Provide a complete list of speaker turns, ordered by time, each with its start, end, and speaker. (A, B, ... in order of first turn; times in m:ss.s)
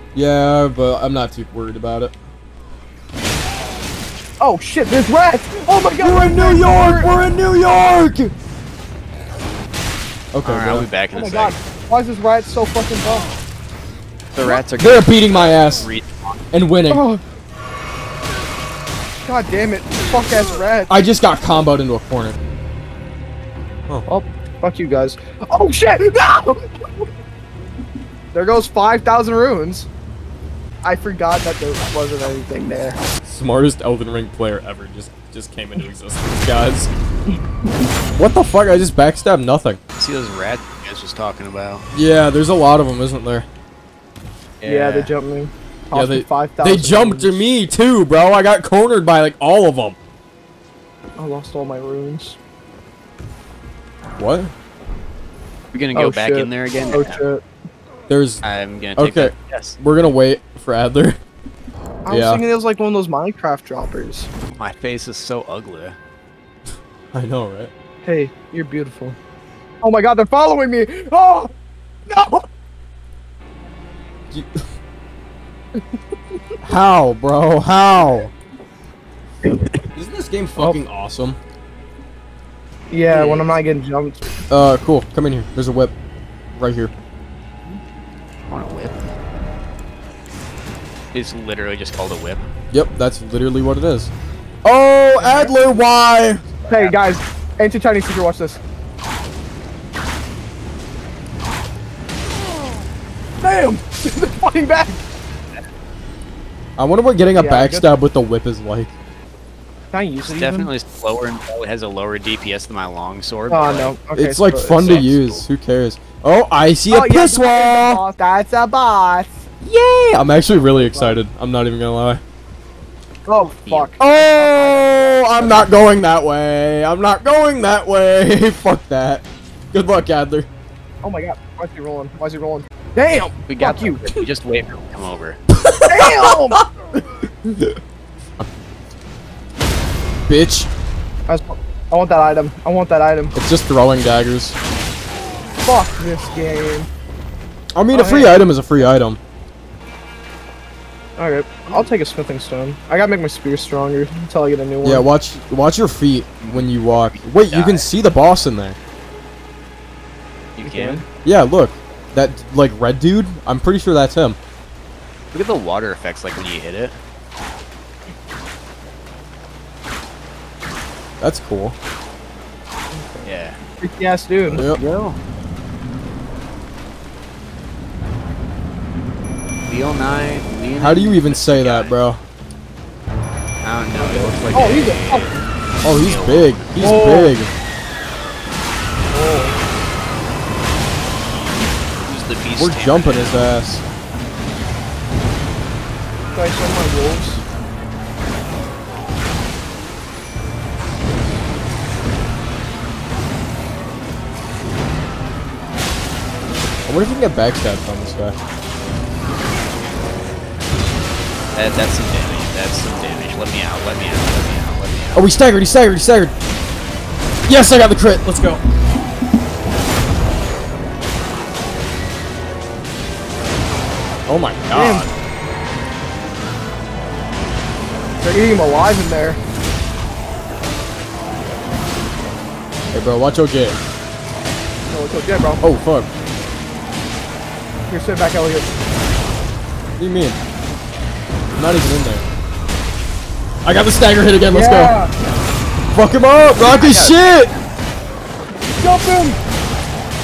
0:00.2-0:02.1 A
0:04.4-0:07.2 B
0:06.0-0:08.3 A
0:10.3-0:10.9 A
0:10.4-0:11.6 C
0:11.1-0:13.3 B
0:14.3-0:16.4 C
0:14.8-0:15.9 A
0:16.5-0:17.0 A
0:16.9-0:17.2 B
0:19.2-0:21.0 B
0:20.9-0:22.4 A
0:24.1-0:27.1 B
0:28.3-0:29.9 B
0:30.8-0:33.0 B
0:33.2-0:36.9 A
0:38.1-0:39.8 A
0:40.0-0:41.9 C
0:41.9-0:43.5 A
0:44.6-0:45.1 C
0:44.6-0:47.4 B
0:45.9-0:50.0 A
0:51.2-0:52.4 B
0:54.2-0:54.5 A
0:55.7-0:57.2 C
0:55.9-0:57.4 B
0:58.1-0:58.4 A
0:58.4-0:59.8 C
0:59.0-1:01.2 A
1:02.0-1:04.3 B
1:02.1-1:02.4 A
1:04.5-1:06.0 C
1:07.1-1:07.7 A
1:08.0-1:09.2 B
1:09.8-1:11.5 B
1:12.1-1:12.5 B
1:14.3-1:14.6 A
1:16.6-1:18.3 A
1:19.9-1:21.4 A
1:22.9-1:24.2 B
1:23.1-1:23.6 C
1:24.5-1:25.9 A
1:26.6-1:26.9 A
1:28.5-1:29.1 C
1:31.1-1:32.5 C
1:32.7-1:34.1 A
1:34.6-1:36.4 A
1:35.2-1:35.5 B
1:36.5-1:37.0 C
1:36.7-1:38.6 B
1:43.4-1:45.0 B
1:46.8-1:48.9 A
1:47.4-1:47.9 B
1:49.9-1:50.7 B
1:50.3-1:54.0 C
1:53.5-1:55.1 B
1:54.2-1:58.0 A
1:54.7-1:55.4 C
1:56.9-1:59.4 B
1:59.6-2:02.2 A
2:00.5-2:01.2 B
2:03.3-2:05.6 B
2:03.4-2:03.9 C
2:04.0-2:10.5 A
2:11.0-2:14.0 B
2:13.5-2:15.4 C
2:15.5-2:17.0 A
2:15.9-2:16.6 B
2:20.3-2:20.7 A
2:21.3-2:23.3 B
2:23.4-2:24.6 A
2:25.6-2:26.9 B
2:27.8-2:29.2 A
2:27.9-2:28.5 B
2:31.2-2:35.0 B
2:34.8-2:38.8 A
2:36.4-2:37.9 C
2:40.6-2:41.0 C
2:40.6-2:41.0 B
2:41.2-2:44.4 A
2:45.3-2:47.0 C
2:51.2-2:51.8 A
2:52.9-2:54.6 B
2:53.2-2:53.6 C
2:54.5-2:55.2 C
2:59.7-3:02.0 C
3:00.8-3:02.2 A
3:03.6-3:07.1 C
3:04.0-3:05.3 B
3:05.8-3:07.5 A
3:06.8-3:07.3 B
3:09.1-3:09.6 B
3:12.0-3:13.6 C
3:12.6-3:13.8 A
3:16.3-3:17.4 B
3:26.9-3:28.4 A
3:31.5-3:35.3 C
3:35.1-3:36.3 A
3:37.5-3:38.6 A
3:44.3-3:45.1 A
3:44.7-3:45.1 B
3:48.2-3:49.4 B
3:52.9-3:53.8 A
3:54.9-3:55.6 B
3:55.6-3:56.1 A
3:57.9-3:58.7 B
4:00.0-4:00.4 A
4:01.6-4:02.3 A
4:03.6-4:05.0 A
4:04.5-4:05.1 B
4:05.9-4:07.5 A
4:06.8-4:07.2 C
4:08.8-4:09.4 B